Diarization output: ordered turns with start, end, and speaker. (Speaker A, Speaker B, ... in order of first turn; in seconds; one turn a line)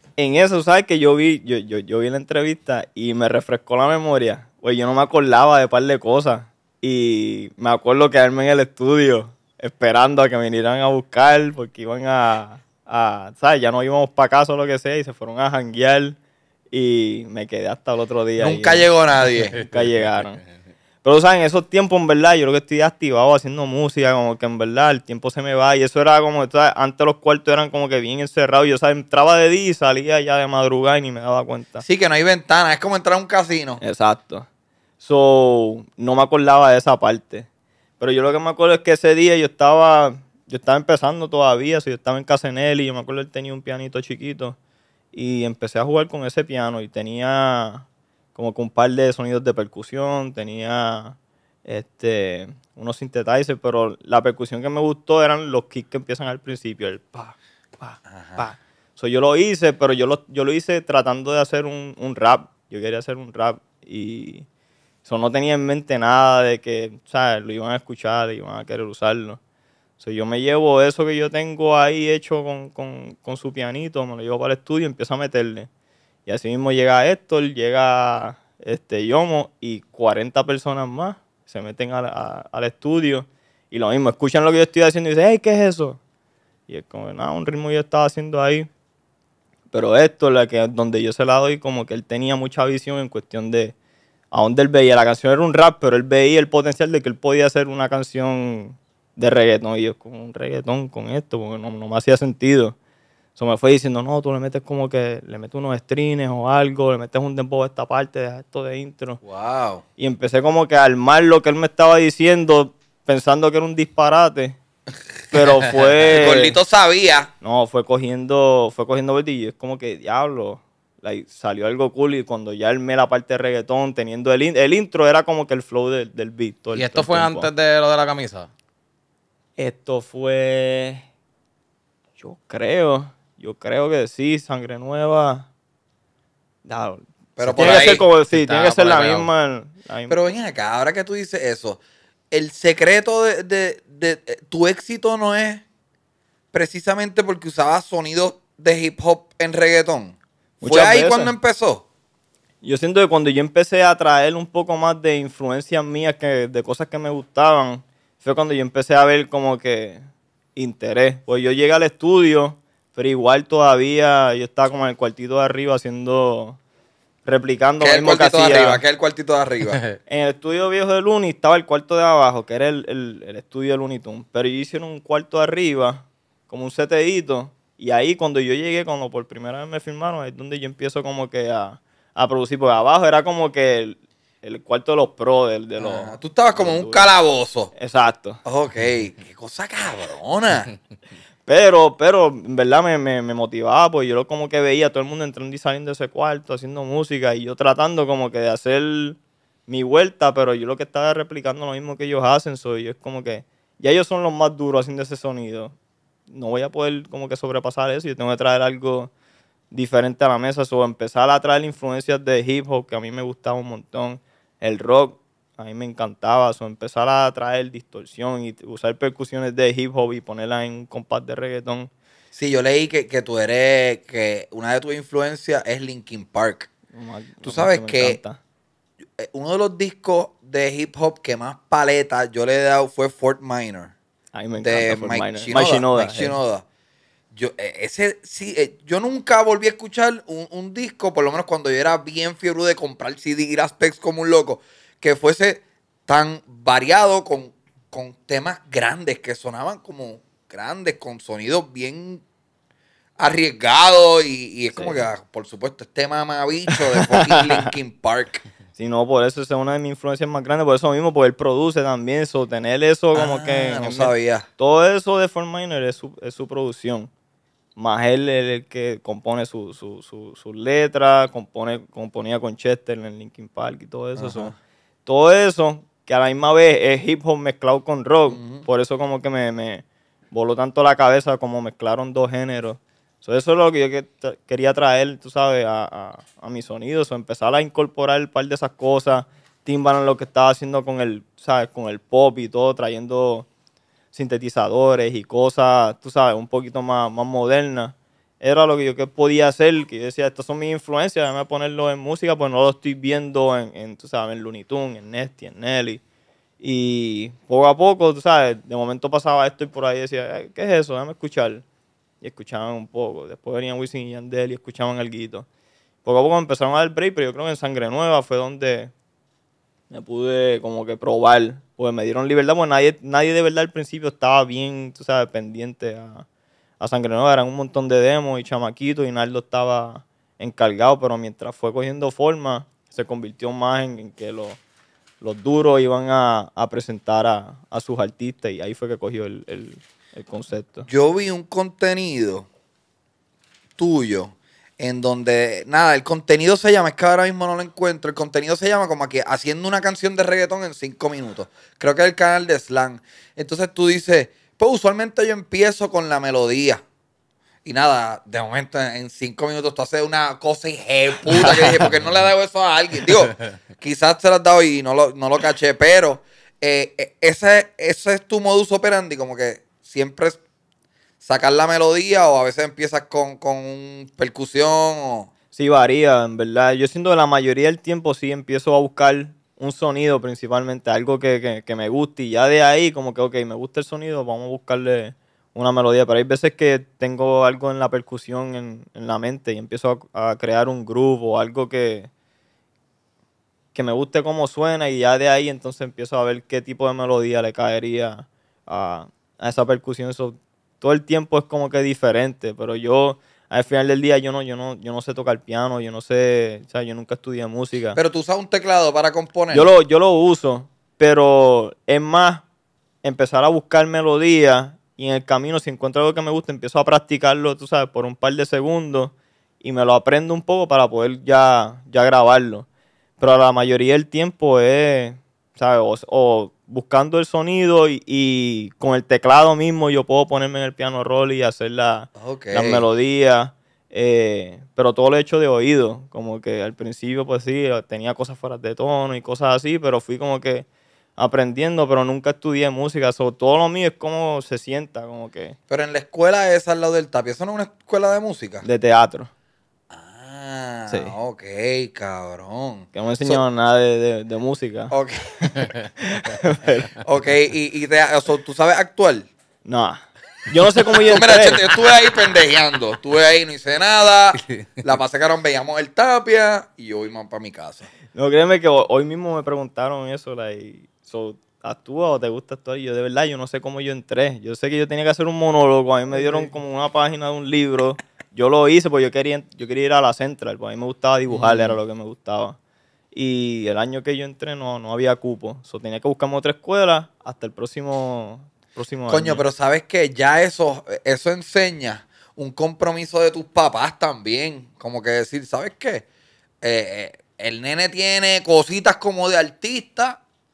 Speaker A: 0.2-16.2
Speaker A: 16.7-18.9
Speaker B: 18.4-19.6
Speaker A: 19.6-20.4
Speaker A: 21.0-31.9
Speaker B: 31.8-33.8
Speaker A: 33.8-34.5
Speaker A: 35.0-37.5
Speaker A: 38.0-44.6
Speaker A: 45.1-64.5
Speaker B: 58.1-58.4
Speaker A: 65.0-69.4
Speaker A: 70.0-75.7
Speaker A: 76.2-86.0
Speaker A: 86.7-88.7
Speaker A: 89.7-93.8
Speaker A: 94.3-102.8
Speaker A: 103.4-109.2
Speaker B: 109.2-109.8
Speaker A: 110.0-114.6
Speaker A: 115.3-116.6
Speaker B: 116.1-117.3
Speaker A: 117.4-127.5
Speaker C: 126.8-128.5
Speaker A: 129.6-131.1
Speaker A: 132.2-135.5
Speaker A: 136.7-140.2
Speaker B: 137.4-138.1
Speaker C: 137.6-139.3
Speaker B: 140.1-145.6
Speaker B: 146.5-151.8
Speaker A: 150.6-151.3
Speaker A: 152.6-160.0
Speaker A: 160.6-166.6
Speaker A: 167.2-168.8
Speaker B: 167.8-169.8
Speaker A: 170.1-187.1
Speaker B: 185.8-187.7
Speaker A: 187.8-188.4
Speaker B: 188.4-190.8
Speaker A: 191.5-205.7
Speaker A: 206.3-209.1
Speaker A: 209.7-221.9
Speaker B: 222.3-226.7
Speaker A: 226.9-228.4
Speaker B: 227.4-228.2
Speaker B: 229.2-233.9
Speaker A: 234.3-236.4
Speaker B: 234.6-236.6
Speaker B: 237.3-252.2
Speaker B: 253.2-258.4
Speaker A: 254.7-255.0
Speaker A: 256.7-257.7
Speaker A: 258.8-267.1
Speaker B: 263.1-264.5
Speaker A: 267.8-274.5
Speaker B: 274.2-274.5
Speaker A: 275.0-293.5
Speaker B: 278.3-278.6
Speaker A: 294.1-306.0
Speaker A: 306.6-311.6
Speaker A: 312.2-315.5
Speaker A: 316.0-318.9
Speaker A: 319.9-326.2
Speaker A: 326.8-334.6
Speaker A: 335.2-340.9
Speaker B: 340.9-342.5
Speaker B: 343.8-356.8
Speaker B: 357.6-370.4
Speaker B: 371.2-375.3
Speaker A: 375.5-392.1
Speaker A: 393.7-408.0
Speaker B: 407.9-409.7
Speaker A: 409.5-412.4
Speaker A: 413.0-422.7
Speaker A: 423.2-440.7
Speaker B: 432.2-432.9
Speaker A: 441.2-445.6
Speaker B: 445.7-448.6
Speaker A: 448.6-449.3
Speaker B: 449.9-453.4
Speaker A: 450.9-451.1
Speaker A: 452.9-454.9
Speaker B: 454.9-455.2
Speaker A: 456.0-456.9
Speaker B: 457.0-459.3
Speaker A: 459.6-461.6
Speaker B: 460.9-467.9
Speaker A: 468.1-482.6
Speaker B: 476.1-476.5
Speaker B: 481.3-481.8
Speaker A: 483.1-489.4
Speaker B: 489.1-496.0
Speaker B: 496.6-500.2